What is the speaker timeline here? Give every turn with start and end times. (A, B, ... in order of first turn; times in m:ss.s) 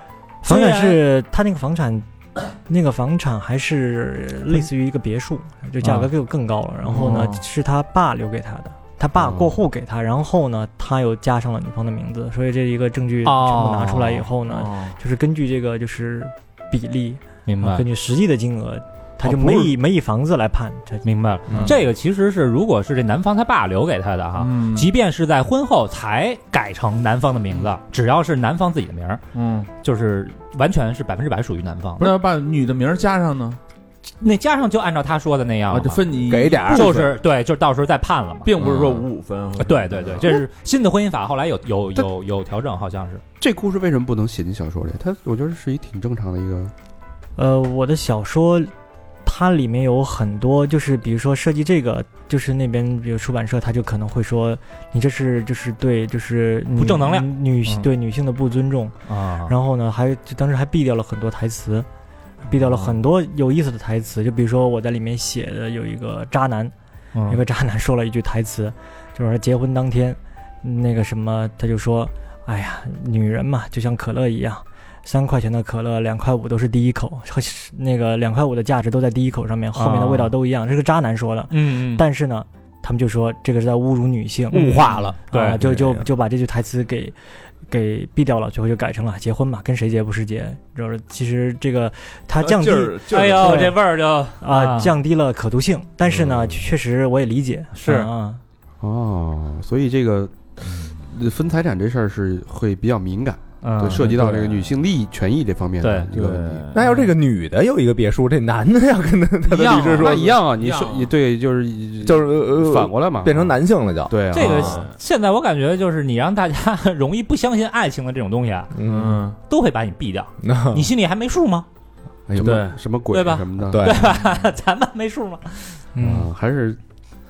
0:00.4-0:02.1 A
0:00.4-0:01.0 B
0:02.6-0:21.0 A
0:05.8-0:06.1 B
0:06.9-0:07.4 C
0:09.2-0:09.4 D
0:13.2-0:14.2 B
0:14.4-0:15.0 C
0:17.5-0:17.8 B
0:21.0-0:29.2 B
0:21.5-0:21.8 E
0:24.4-0:24.9 C
0:29.3-0:29.7 C
0:29.8-0:32.2 B
0:32.0-0:33.6 C
0:34.2-0:38.5 B
0:35.7-0:37.1 C
0:36.3-0:37.1 E
0:38.4-0:40.4 C
0:38.6-0:39.0 E
0:39.6-0:43.2 B
0:43.4-0:46.7 D
0:47.4-0:48.7 A
0:49.2-1:01.9 A
0:56.8-0:57.9 B
0:59.1-0:59.5 B
1:02.4-1:06.7 A
1:07.1-1:07.4 B
1:07.3-1:27.2 A
1:19.8-1:20.3 B
1:21.5-1:22.0 B
1:24.5-1:25.6 B
1:24.5-1:26.1 E
1:27.7-1:33.8 A
1:32.4-1:33.8 C
1:33.1-1:34.9 B
1:34.4-1:38.4 A
1:37.8-1:38.1 B
1:38.8-1:46.7 D
1:43.6-1:44.1 B
1:44.0-1:44.6 C
1:45.8-1:46.1 B
1:46.1-1:46.8 C
1:46.7-1:50.4 E
1:46.8-1:47.1 B
1:49.5-1:51.1 C
1:49.9-1:53.5 D
1:52.0-1:54.7 E
1:54.1-1:54.8 D
1:54.3-1:58.7 B
1:54.5-1:54.9 C
1:58.8-1:59.2 E
1:58.8-1:59.4 C
1:59.5-2:01.7 B
2:00.4-2:00.9 E
2:02.3-2:02.8 C
2:02.4-2:03.9 D
2:03.1-2:05.8 B
2:03.7-2:04.1 E
2:06.0-2:06.3 A
2:06.0-2:06.8 D